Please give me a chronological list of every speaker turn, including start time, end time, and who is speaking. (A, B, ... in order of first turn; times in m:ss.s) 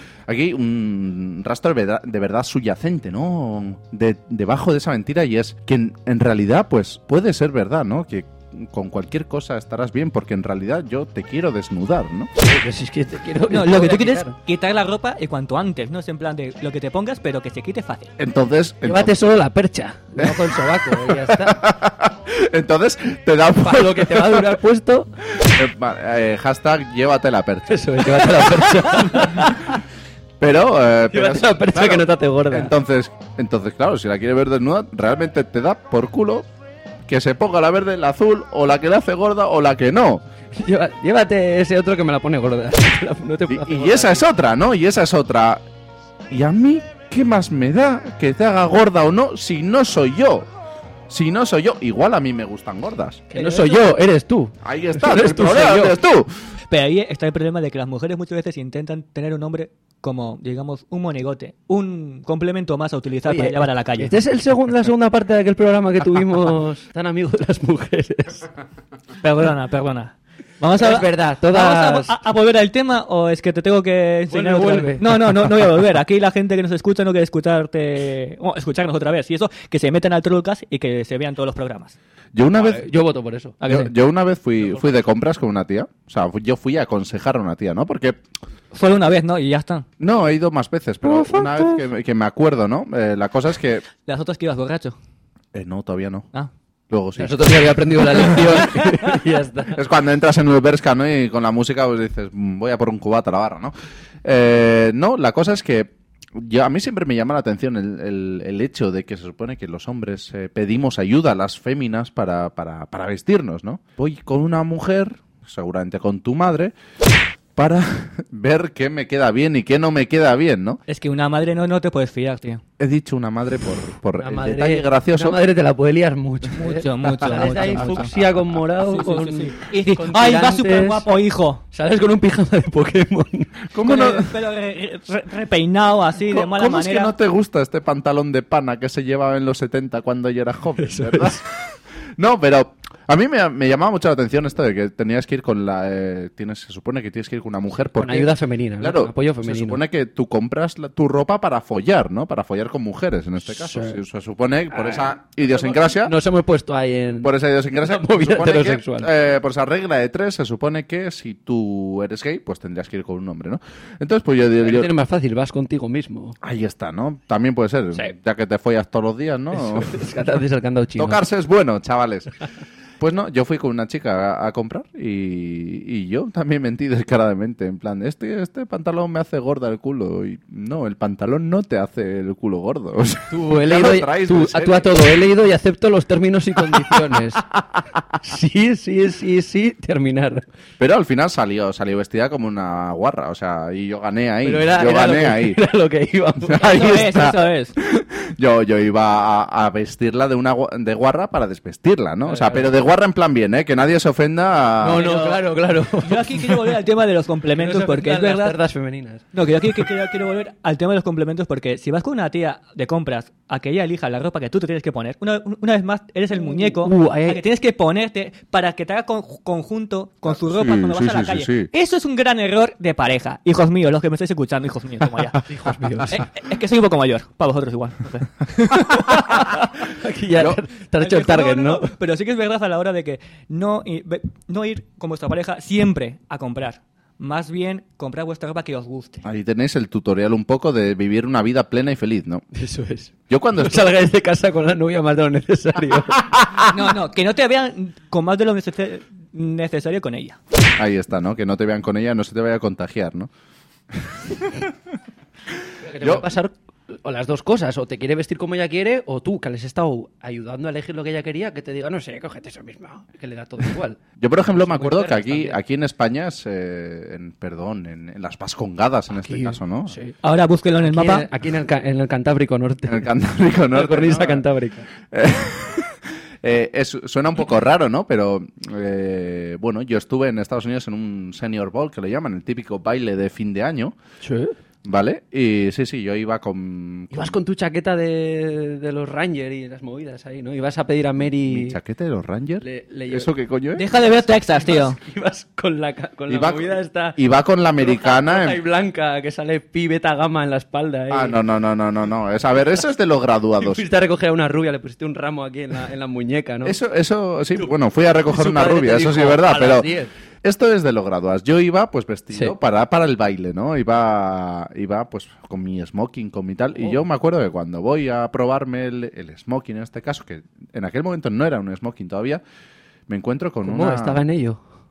0:00.3-0:12.3 A
0:12.4-0:14.3 B
0:13.5-0:18.1 C
0:18.2-0:19.2 A
0:18.8-0:21.7 B
0:21.1-0:24.6 A
0:23.6-0:25.1 B
0:25.4-0:27.8 A
0:27.7-0:29.6 B
0:30.4-0:36.5 A
0:31.1-0:32.7 B
0:37.1-0:40.2 A
0:40.6-0:44.2 B
0:43.5-0:45.6 A
0:46.3-0:50.5 A
0:51.1-0:53.8 A
0:53.3-0:56.0 B
0:54.6-0:56.3 A
0:56.7-1:04.2 C
1:03.3-1:08.5 B
1:09.2-1:22.0 C
1:10.8-1:12.1 B
1:14.3-1:15.5 B
1:22.3-1:22.9 A
1:22.5-1:23.6 B
1:23.6-1:23.9 C
1:23.6-1:28.2 A
1:24.7-1:25.0 B
1:28.7-1:29.9 C
1:30.0-1:33.9 A
1:31.0-1:31.8 B
1:34.1-1:35.0 C
1:35.5-1:36.3 A
1:36.9-1:37.5 A
1:37.2-1:39.8 B
1:38.1-1:38.9 A
1:39.7-1:56.7 A
1:57.6-2:00.8 A
2:00.9-2:02.6 C
2:02.8-2:05.4 A
2:04.2-2:11.1 B
2:06.6-2:08.2 C
2:07.2-2:08.0 A
2:08.8-2:11.6 C
2:11.7-2:13.6 B
2:13.7-2:14.3 A
2:13.8-2:17.1 C
2:16.3-2:21.5 A
2:20.8-2:21.4 B
2:22.2-2:36.1 A
2:28.0-2:29.8 B
2:33.5-2:34.0 B
2:34.7-2:39.1 B
2:37.2-2:44.9 A
2:44.6-2:46.4 B
2:46.4-2:50.0 A
2:49.6-2:51.2 B
2:51.0-2:52.3 A
2:53.0-3:05.0 A
3:03.3-3:07.4 B
3:08.2-3:10.4 B
3:10.8-3:15.6 A
3:14.4-3:17.1 B
3:16.5-3:25.0 A
3:16.6-3:17.7 C
3:22.3-3:22.7 B
3:24.8-3:26.8 B
3:25.0-3:25.4 C
3:26.0-3:28.6 C
3:27.5-3:29.8 B
3:29.3-3:45.4 C
3:36.3-3:37.4 B
3:40.2-3:41.7 A
3:45.5-3:46.2 B
3:46.1-3:49.3 C
3:49.9-3:51.9 B
3:51.0-3:59.2 C
3:59.2-4:02.4 A
4:02.6-4:06.7 B
4:03.3-4:03.9 A
4:06.7-4:10.4 C
4:10.8-4:13.3 A
4:15.8-4:25.6 B
4:16.0-4:16.3 A
4:24.2-4:30.0 A
4:29.1-4:30.2 B
4:30.2-4:31.3 C
4:30.8-4:33.1 B
4:32.9-4:34.4 A
4:33.7-4:34.9 B
4:35.1-4:44.0 A
4:44.2-4:44.6 B
4:44.8-4:47.4 A
4:47.1-4:51.8 B
4:51.5-4:53.9 A
4:52.6-4:53.3 B
4:53.8-4:55.0 C
4:54.4-4:57.2 B
4:56.3-4:58.6 A
4:57.8-5:01.4 B
5:01.1-5:03.8 A
5:03.6-5:06.8 B
5:06.6-5:09.9 A
5:08.3-5:10.1 B
5:10.4-5:22.4 A
5:16.8-5:17.0 B
5:23.1-5:24.2 A
5:23.6-5:24.6 B